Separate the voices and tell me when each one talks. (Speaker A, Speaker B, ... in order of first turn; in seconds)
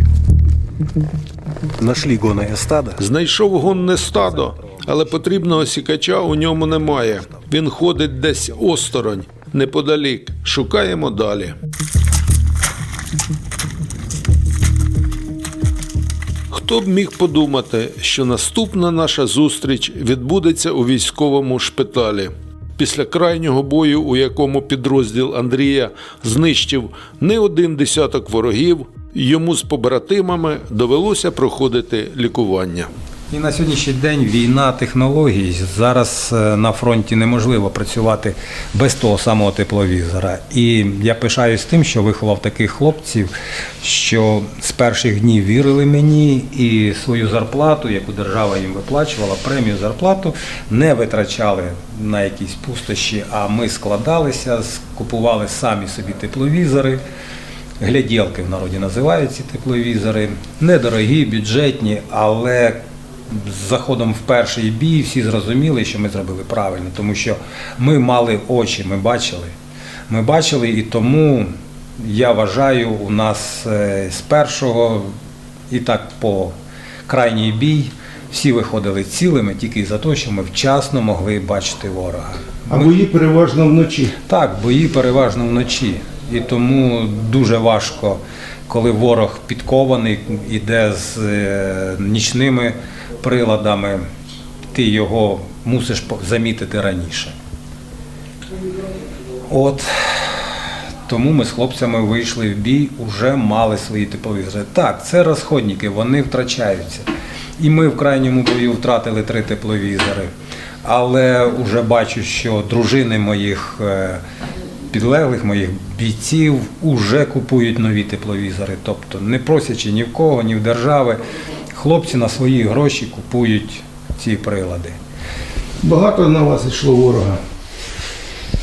Speaker A: 1.8-3.0, 33.3-57.0, 57.8-69.5, 70.1-75.1, 75.7-76.5, 77.1-82.9, 84.2-94.0, 94.7-97.3, 99.5-110.3, 110.8-114.2, 114.9-125.0
Speaker B: 3.0-11.6, 16.5-32.9
Speaker C: 4.7-5.1, 82.7-84.1, 125.8-127.4